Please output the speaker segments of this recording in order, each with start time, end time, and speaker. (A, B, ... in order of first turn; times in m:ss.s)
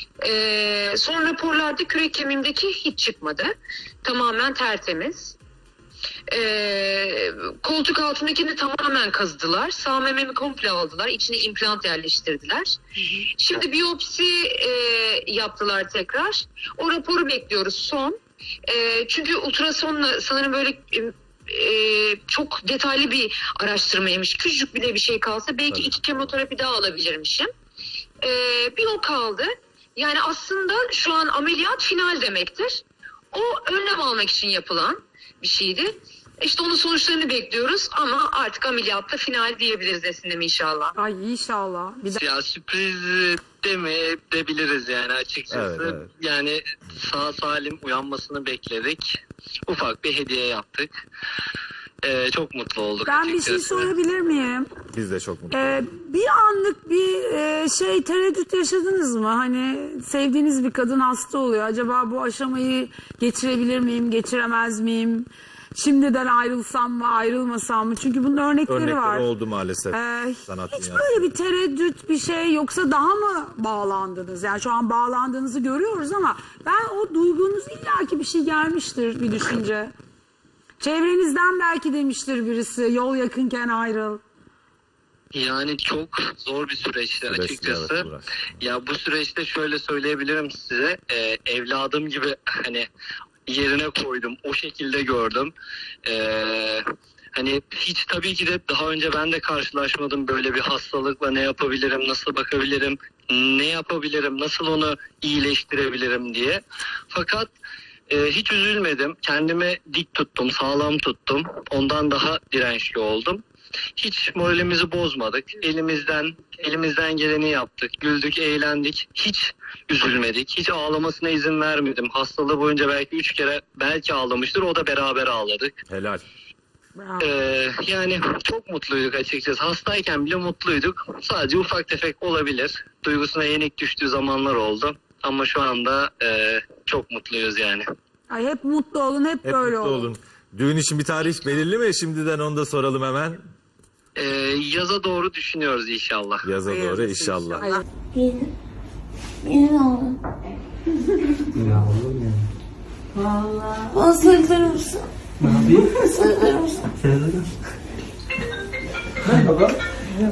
0:00.2-0:03.5 A
0:04.0-0:05.4 A
0:06.3-0:18.2 A
0:13.0-0:13.2 B
0:18.7-0:27.5 A
0:25.7-0:26.3 C
0:28.2-0:40.9 A
0:41.0-0:42.2 B
0:42.1-0:50.9 D
0:45.5-0:46.1 C
0:52.0-0:53.9 D
0:53.0-0:54.7 B
0:54.9-0:55.8 C
0:55.5-1:09.3 B
1:08.7-1:11.2 C
1:09.9-1:19.9 B
1:20.8-1:24.2 B
1:25.3-1:28.1 D
1:27.3-1:28.4 C
1:28.6-1:32.8 D
1:33.5-1:35.5 D
1:36.0-1:36.8 D
1:37.3-1:47.5 D
1:48.1-1:53.4 D
1:54.0-2:05.7 D
2:05.9-2:06.2 C
2:07.0-2:07.3 B
2:07.2-2:17.8 D
2:18.3-2:20.1 B
2:19.4-2:23.4 C
2:24.2-2:26.5 D
2:26.4-2:27.7 C
2:26.7-2:27.8 B
2:28.1-2:28.5 E
2:29.4-2:30.2 E
2:31.6-2:32.4 F
2:33.3-2:36.9 E
2:35.4-2:36.0 F
2:36.9-2:37.4 F
2:39.3-2:39.7 F